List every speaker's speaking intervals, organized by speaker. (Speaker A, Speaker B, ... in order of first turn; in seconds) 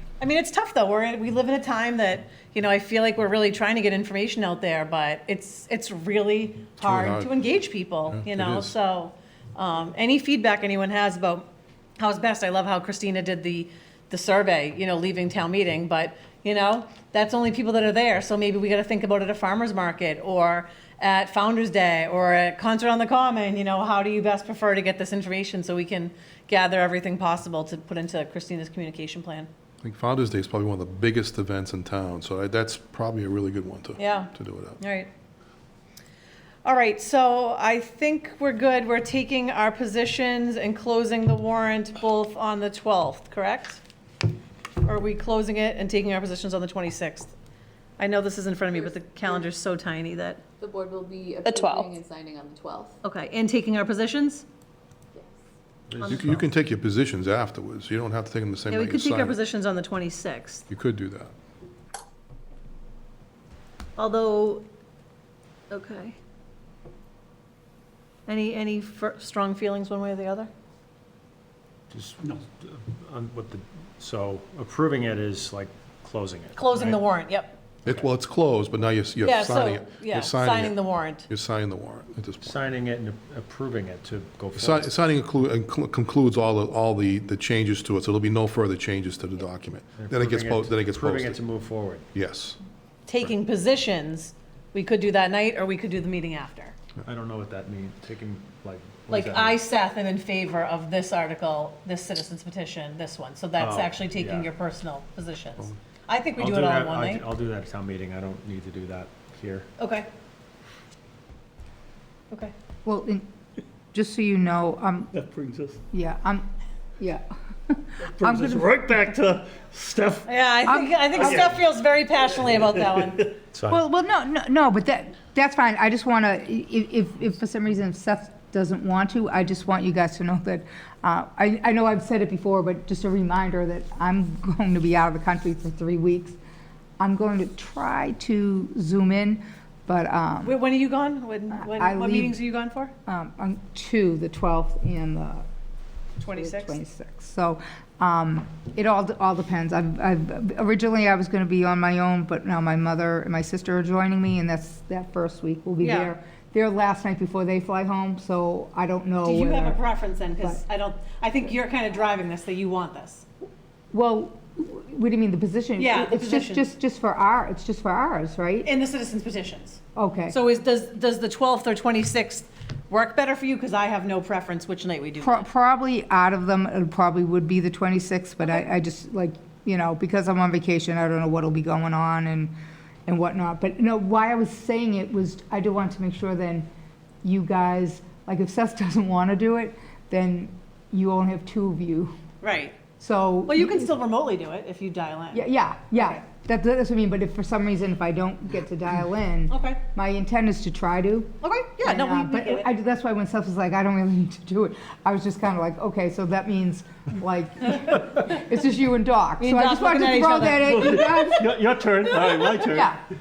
Speaker A: 0.2-11.4, 12.0-29.5, 34.0-35.1, 36.6-43.8, 44.8-47.3, 48.0-50.4, 51.4-52.0, 53.0-54.5, 56.0-56.4, 58.7-60.7, 64.0-64.6, 65.7-66.2, 68.3-70.5, 76.5-77.6, 79.2-81.3, 93.0-96.7, 99.1-107.2, 109.8-110.1, 120.2-123.4, 140.4-142.9, 146.2-146.8, 155.8-156.1, 159.2-163.2, 165.8-166.7, 168.6-175.5, 192.4-192.8, 193.4-196.2, 199.5-199.8, 201.4-202.7, 209.4-211.4, 212.1-212.7
Speaker B: 6.8-7.5, 8.1-8.7, 29.8-34.8, 56.1-59.4, 60.7-61.3, 77.8-82.5, 84.6-91.4, 92.1-92.6
Speaker C: 50.6-53.0
Speaker D: 55.9-56.4, 71.9-77.0, 82.4-84.9, 90.0-92.0, 97.0-99.6, 103.6-104.5, 106.4-109.7, 123.5-123.8
Speaker E: 112.8-113.3, 113.9-115.2, 115.9-119.0, 120.7-121.4, 123.7-136.4, 137.0-140.6, 141.5-142.4, 143.1-145.4, 146.3-159.8, 163.9-168.7, 169.9-170.3, 175.2-182.5, 183.1-186.7, 187.2-192.1, 193.0-193.9, 195.3-211.6, 212.6-213.0
Speaker F: 115.2-115.8, 118.2-120.3, 210.6-212.9